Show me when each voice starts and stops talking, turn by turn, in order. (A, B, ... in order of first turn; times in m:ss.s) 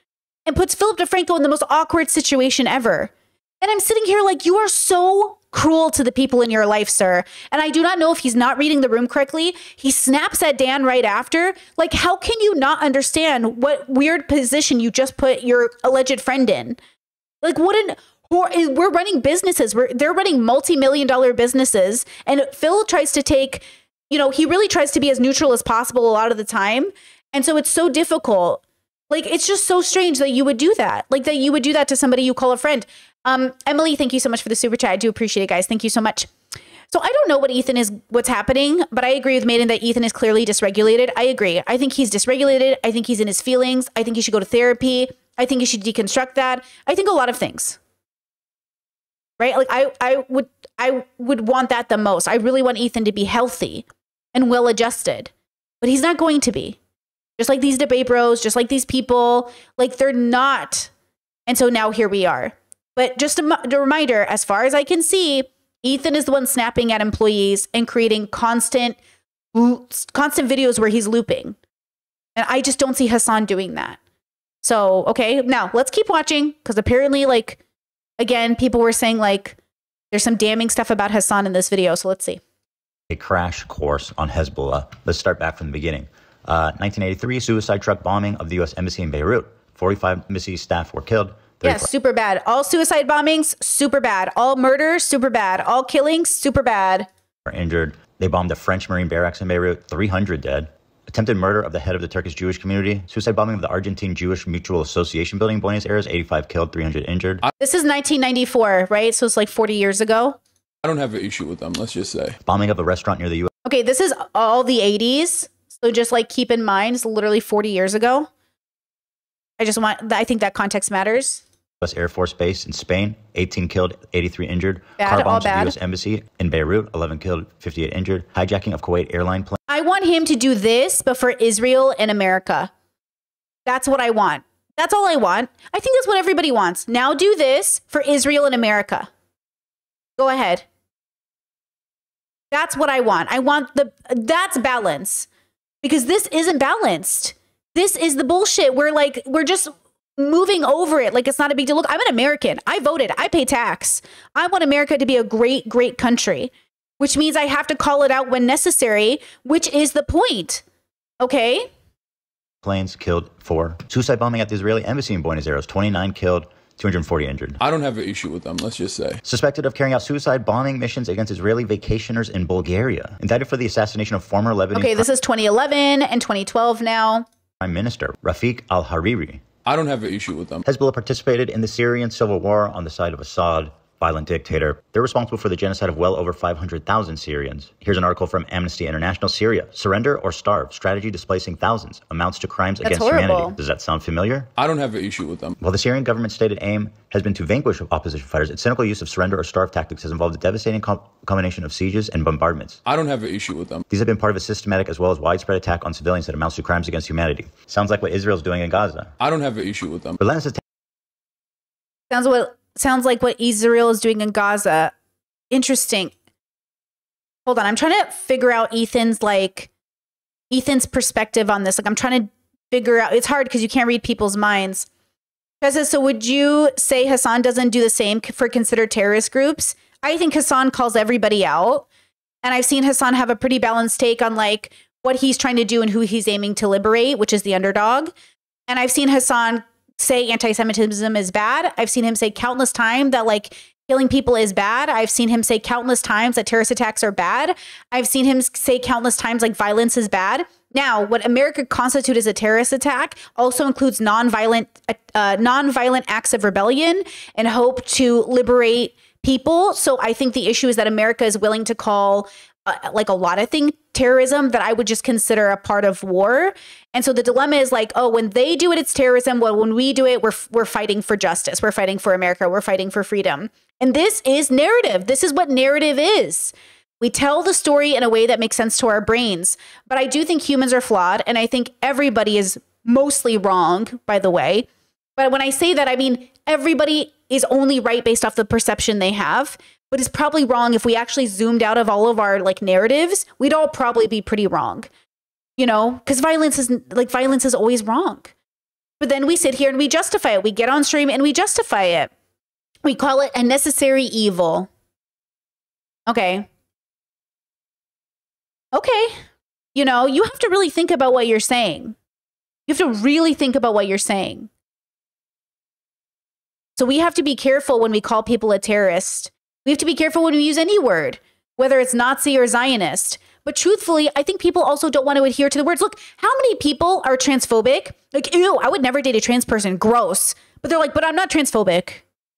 0:00.4-0:16.8 A
0:17.4-0:36.3 A
0:36.9-0:47.8 A
0:49.4-0:55.3 A
0:55.8-0:56.8 A
0:57.4-1:00.9 A
1:01.5-1:09.0 A
1:09.5-1:11.6 A
1:12.4-1:14.0 A
1:14.6-1:17.6 A
1:18.2-1:19.6 A
1:20.1-1:22.4 A
1:23.1-1:31.9 B
1:31.6-1:37.1 A
1:37.4-1:47.4 B
1:47.6-1:50.4 A
1:50.8-1:52.4 C
1:52.4-1:53.5 B
1:53.6-1:58.3 A
1:59.6-2:01.4 A
2:01.8-2:09.6 B
2:05.0-2:05.8 A
2:09.7-2:12.7 A
2:13.6-2:19.1 A
2:20.2-2:20.6 A
2:22.5-2:25.3 A
2:25.8-2:40.6 A
2:41.2-2:41.7 A
2:42.6-2:47.6 B
2:47.6-2:49.2 C
2:49.2-2:55.0 B
2:54.7-2:57.2 A
2:57.6-2:59.4 B
2:59.6-3:00.6 C
3:00.6-3:14.5 B
3:12.8-3:13.6 A
3:14.6-3:15.6 C
3:15.6-3:22.8 B
3:22.8-3:23.8 C
3:23.9-3:29.1 B
3:29.2-3:30.2 C
3:30.2-3:30.6 B
3:32.1-3:34.9 A
3:35.5-3:36.1 A
3:37.4-3:39.7 A
3:40.5-3:44.9 A
3:45.6-3:51.8 A
3:52.4-3:58.1 A
3:58.7-4:54.9 A
4:55.6-4:58.3 A
4:59.0-5:02.1 A
5:02.8-5:04.7 A
5:06.1-5:06.5 A
5:08.7-5:09.2 A
5:09.7-5:11.9 A
5:12.7-5:14.5 A
5:16.8-5:32.0 A